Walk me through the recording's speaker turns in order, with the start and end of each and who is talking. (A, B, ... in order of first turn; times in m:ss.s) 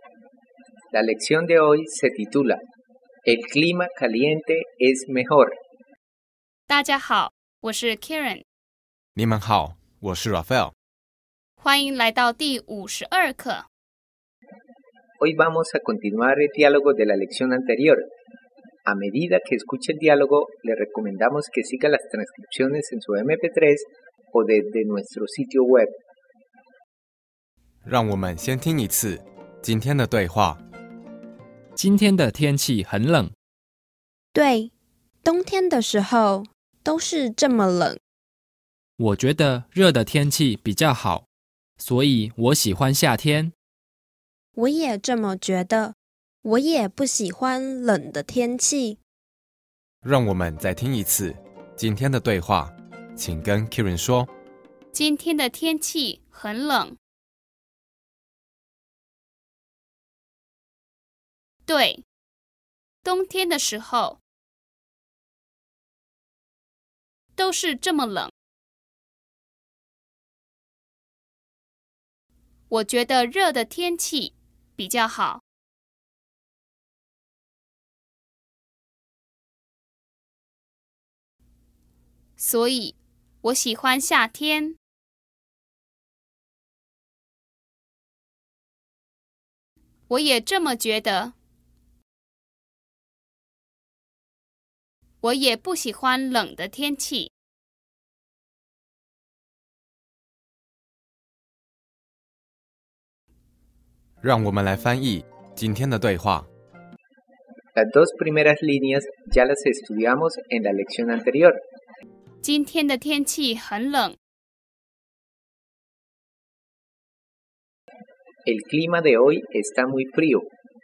0:00.9-0:02.6 A
0:03.2-0:05.5 A
0:06.7-0:08.4 B
0:09.2-0:10.7 C
0:11.6-0:13.6 B
0:15.2-0:18.0 A
0:18.8-0:25.9 A
0:27.8-0:30.6 C
0:31.8-0:33.3 D
0:34.3-0:34.7 E
0:35.2-0:38.0 E
0:39.0-0:41.2 D
0:41.8-0:43.5 D
0:44.6-0:49.0 E
0:50.0-0:54.3 C
0:54.9-0:57.0 B
1:01.6-1:02.0 B
1:03.0-1:04.2 B
1:07.4-1:08.3 B
1:12.7-1:15.4 B
1:22.4-1:24.8 B
1:30.1-1:31.3 B
1:35.2-1:37.3 B
1:44.2-1:46.5 C
1:47.8-1:51.6 A
1:52.4-1:54.2 B
1:58.4-2:00.5 A